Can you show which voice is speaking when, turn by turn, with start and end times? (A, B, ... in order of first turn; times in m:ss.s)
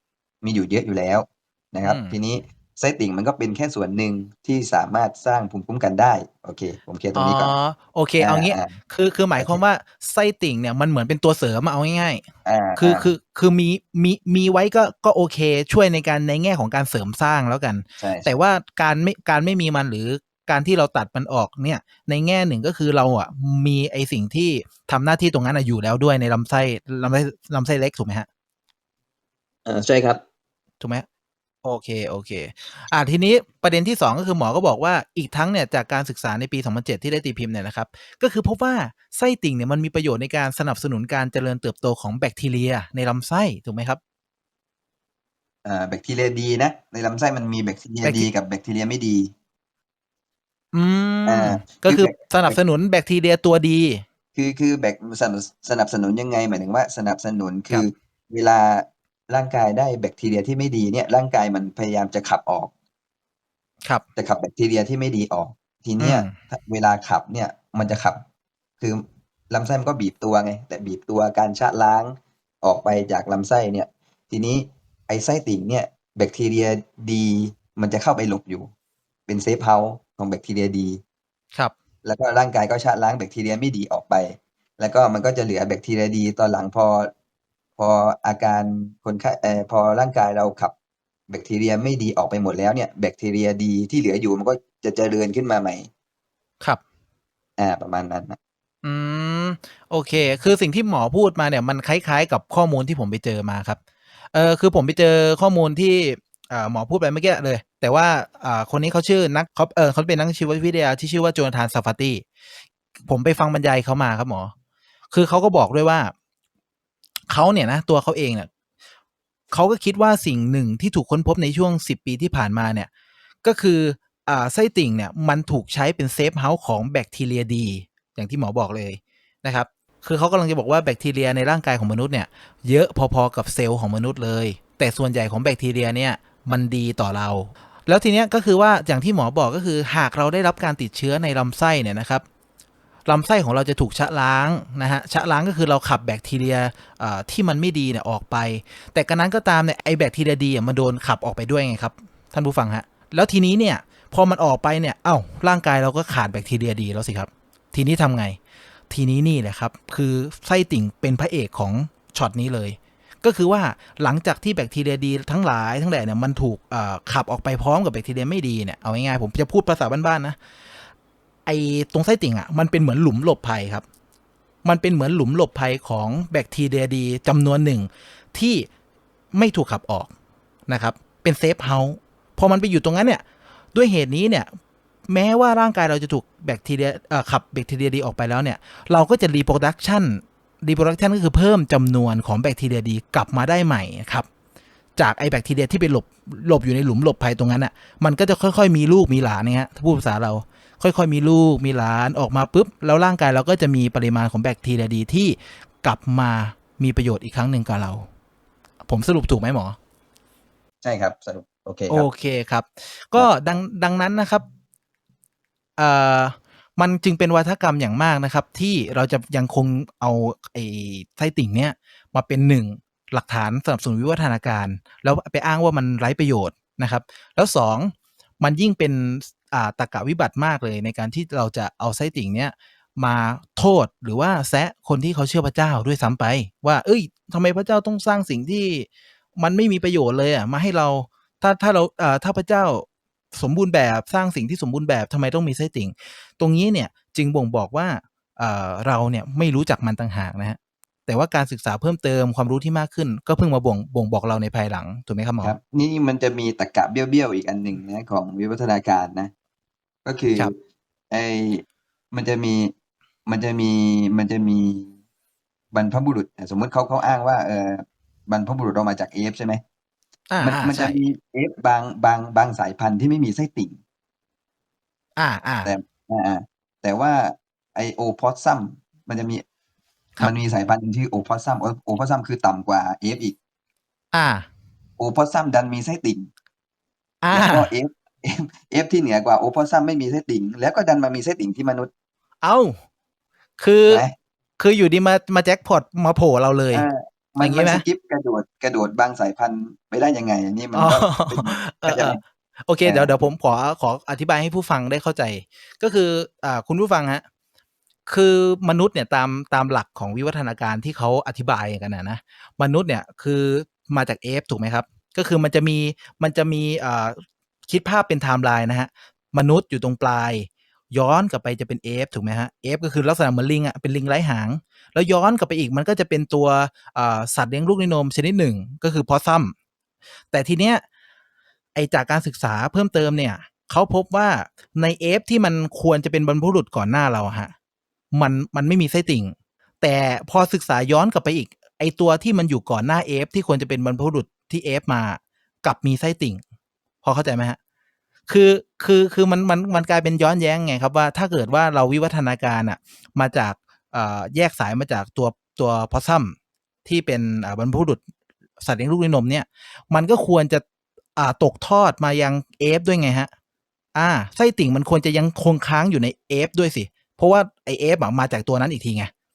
0:00.4-0:07.6 A
0:01.8-0:02.2 B
0:07.1-0:12.2 B
0:08.2-0:08.7 A
0:12.4-0:13.1 A
0:12.8-0:28.3 B
0:18.0-0:18.3 A
0:29.6-0:30.2 A
0:30.8-0:31.0 B
0:31.6-0:44.0 B
0:45.6-0:49.3 A
0:48.0-0:48.3 B
0:50.7-0:54.0 B
0:51.2-0:52.6 A
0:54.3-1:02.7 A
1:04.2-1:08.2 A
1:06.0-1:06.4 B
1:08.8-1:18.7 A
1:19.3-1:21.0 A
1:22.0-1:27.1 A
1:27.8-1:30.7 A
1:31.3-1:35.9 A
1:37.6-1:38.4 A
1:38.8-1:43.8 B
1:44.3-1:52.2 B
1:53.1-1:54.5 B
1:55.1-1:56.1 B
1:57.3-1:58.5 B
1:59.5-2:02.9 B
2:03.4-2:22.2 B
2:23.1-2:38.4 B
2:38.9-2:50.4 B
2:51.4-2:53.8 B
2:54.6-2:58.7 B
2:59.3-3:00.1 B
3:00.7-3:03.2 B
3:03.7-3:04.5 B
3:05.1-3:14.3 B
3:15.0-3:28.0 B
3:28.9-3:29.8 B
3:30.8-3:32.0 A
3:31.9-3:34.4 B
3:35.8-4:15.6 B
4:15.4-4:19.3 A
4:20.0-4:20.5 A
4:21.1-4:22.7 A
4:23.2-4:24.9 A
4:25.7-4:29.6 A
4:30.3-4:31.0 B
4:30.4-4:33.8 A
4:35.2-4:35.7 B
4:35.6-4:39.4 A
4:40.2-4:43.4 A
4:44.1-4:44.5 B
4:45.0-4:46.3 A
4:47.2-4:47.7 B
4:47.3-4:51.9 A
4:52.4-4:52.8 B
4:53.6-4:54.0 B
4:53.9-4:54.1 A
4:54.6-4:56.8 B
4:56.7-5:02.2 A
4:57.4-4:57.8 B
5:00.7-5:07.2 B
5:02.8-5:03.2 A
5:08.1-5:29.5 B
5:30.3-5:30.8 B
5:31.7-5:37.5 B
5:38.1-5:46.4 B
5:47.0-5:47.6 B
5:48.3-5:58.0 B
5:58.6-6:00.6 B
6:01.2-6:03.3 B
6:04.0-6:09.1 B